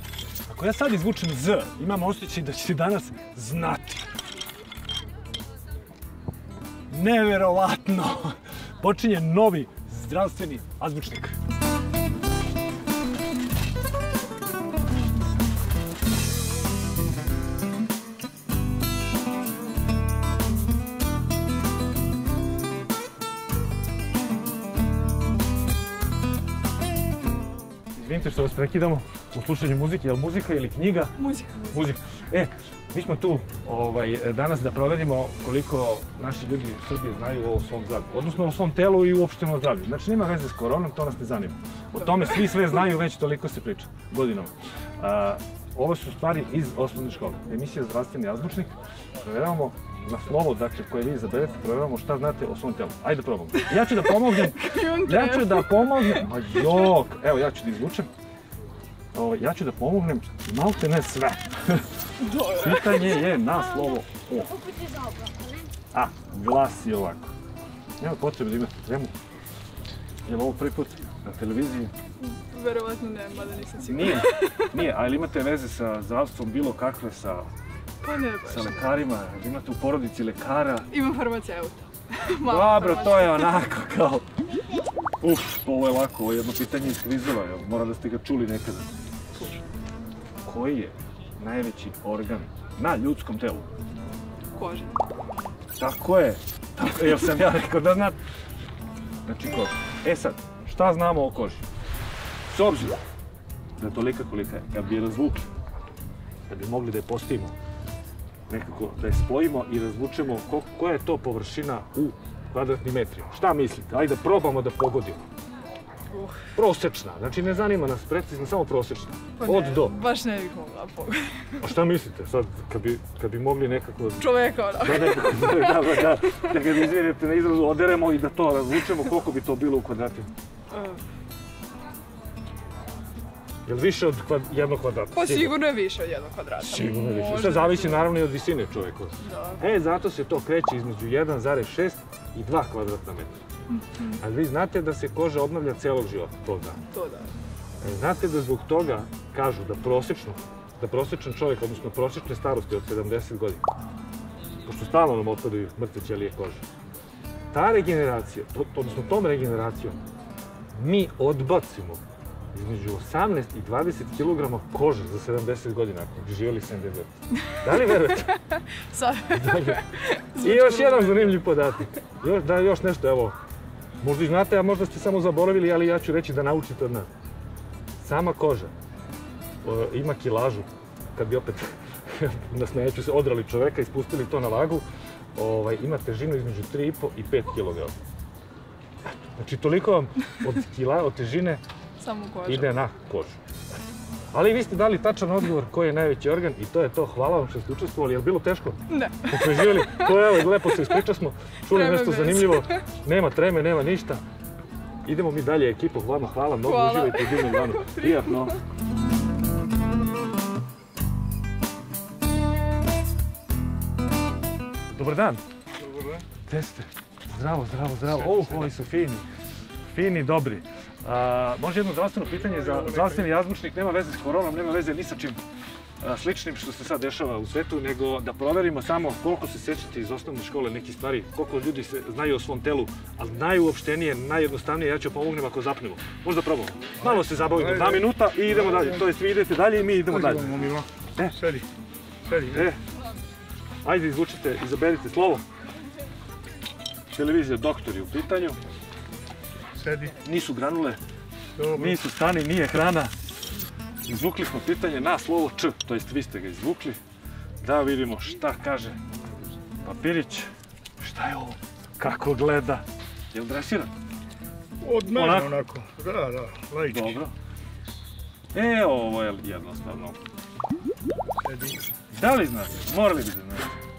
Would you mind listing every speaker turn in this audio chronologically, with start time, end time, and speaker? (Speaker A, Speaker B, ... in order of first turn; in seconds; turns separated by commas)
Speaker A: 0.5-4.1, Speaker A: 6.9-11.4, Speaker A: 27.9-58.1, Speaker B: 31.2-31.8, Speaker B: 54.3-56.3, Speaker A: 59.1-61.9, Speaker B: 62.2-63.2, Speaker A: 62.5-64.5, Speaker A: 65.9-67.3, Speaker A: 68.0-69.1, Speaker A: 70.2-71.9, Speaker B: 72.2-74.7, Speaker A: 73.8-77.5, Speaker B: 78.0-79.0, Speaker A: 78.4-80.9, Speaker B: 80.9-83.6, Speaker A: 82.4-84.2, Speaker A: 85.2-88.9, Speaker A: 90.4-93.7, Speaker B: 94.5-95.0, Speaker A: 95.8-98.2, Speaker A: 99.2-101.6, Speaker A: 102.5-103.0, Speaker A: 103.8-105.5, Speaker A: 106.5-107.5, Speaker A: 108.5-115.2, Speaker B: 116.1-116.4, Speaker A: 116.5-119.9, Speaker B: 119.4-121.6, Speaker A: 121.6-130.3, Speaker B: 124.2-126.5, Speaker B: 130.7-131.0, Speaker A: 133.6-135.6, Speaker B: 135.1-138.1, Speaker A: 136.6-143.4, Speaker B: 139.2-139.6, Speaker B: 143.7-144.2, Speaker A: 144.2-146.8, Speaker B: 146.9-147.3, Speaker A: 147.8-153.6, Speaker A: 154.7-156.6, Speaker A: 157.5-160.0, Speaker A: 160.7-162.0, Speaker A: 162.5-168.4, Speaker B: 168.5-171.4, Speaker A: 169.3-169.8, Speaker A: 170.4-173.3, Speaker A: 174.0-177.1, Speaker A: 178.0-178.7, Speaker A: 179.6-184.8, Speaker A: 185.3-187.9, Speaker A: 189.1-191.6, Speaker B: 192.0-192.7, Speaker A: 192.4-193.4, Speaker A: 194.3-204.2, Speaker B: 198.9-200.8, Speaker B: 201.7-202.8, Speaker A: 205.0-208.6, Speaker B: 206.6-208.6, Speaker A: 214.9-215.4, Speaker C: 215.8-216.2, Speaker A: 216.4-219.2, Speaker A: 219.8-225.4, Speaker C: 222.8-223.2, Speaker A: 226.0-241.4, Speaker C: 237.6-238.0, Speaker C: 240.1-241.7, Speaker C: 242.3-242.7, Speaker A: 242.5-242.8, Speaker A: 243.8-245.4, Speaker A: 247.1-248.6, Speaker C: 249.8-250.2, Speaker A: 250.2-251.0, Speaker C: 251.6-251.9, Speaker A: 251.7-253.1, Speaker A: 254.1-257.0, Speaker A: 257.6-259.0, Speaker A: 259.8-260.5, Speaker A: 261.0-263.9, Speaker C: 264.8-267.1, Speaker A: 265.1-265.6, Speaker A: 266.9-267.3, Speaker A: 268.5-270.2, Speaker C: 271.4-271.8, Speaker A: 272.1-273.7